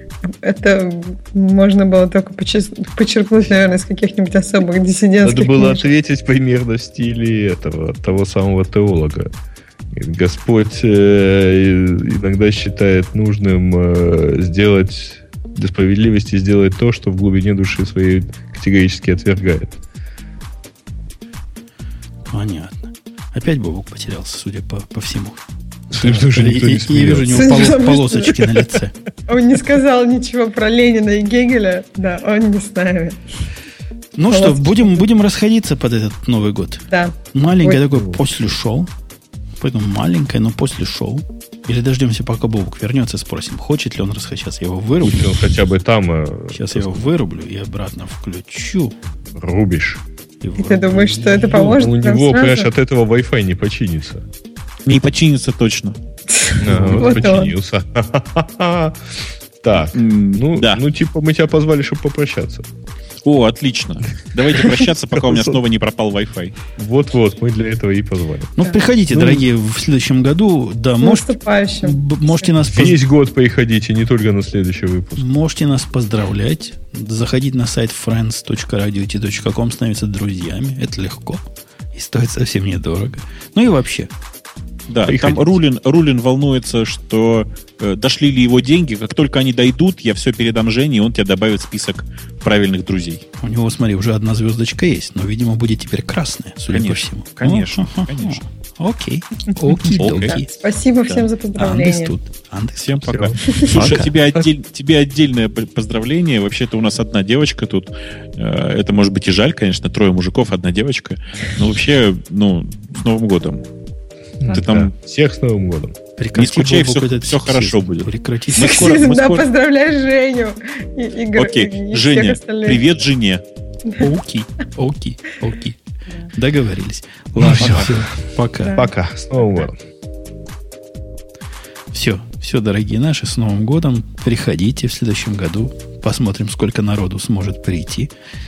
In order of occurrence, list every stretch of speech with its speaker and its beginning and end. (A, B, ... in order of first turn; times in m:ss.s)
0:00.4-0:05.9 A
0:05.2-0:09.3 B
0:09.9-0:19.7 B
0:22.3-0:28.9 C
0:25.9-0:27.7 B
0:27.3-0:28.4 A
0:29.3-0:33.2 A
0:34.2-0:38.9 C
0:34.3-0:35.0 A
0:36.9-0:37.8 A
0:37.8-0:38.2 B
0:39.6-0:45.5 C
0:45.0-0:47.1 B
0:46.5-0:48.9 C
0:49.3-0:50.0 B
0:50.4-0:51.6 C
0:50.6-0:52.7 A
0:51.4-0:54.2 B
0:54.8-0:56.0 D
0:56.3-0:57.5 A
0:56.6-1:02.6 B
0:56.6-0:57.5 D
0:59.9-1:00.8 D
1:03.2-1:06.6 D
1:05.1-1:05.6 B
1:06.7-1:08.5 B
1:08.6-1:13.0 C
1:08.6-1:08.9 A
1:09.1-1:09.5 B
1:11.0-1:12.5 A
1:12.7-1:15.2 B
1:15.2-1:24.1 C
1:24.9-1:33.2 D
1:25.1-1:25.5 B
1:33.4-1:40.5 C
1:36.7-1:38.4 D
1:40.0-1:40.4 D
1:40.1-1:42.1 A
1:41.5-1:44.1 C
1:42.8-1:53.6 D
1:43.1-1:44.4 B
1:54.4-1:55.9 B
1:54.5-1:54.9 D
1:56.2-1:59.0 C
1:56.3-1:59.4 D
1:58.5-2:02.9 A
2:01.4-2:03.4 D
2:04.0-2:05.8 C
2:06.3-2:08.9 C
2:07.4-2:08.0 B
2:07.5-2:07.9 D
2:08.6-2:08.9 A
2:08.6-2:09.8 B
2:11.9-2:18.1 C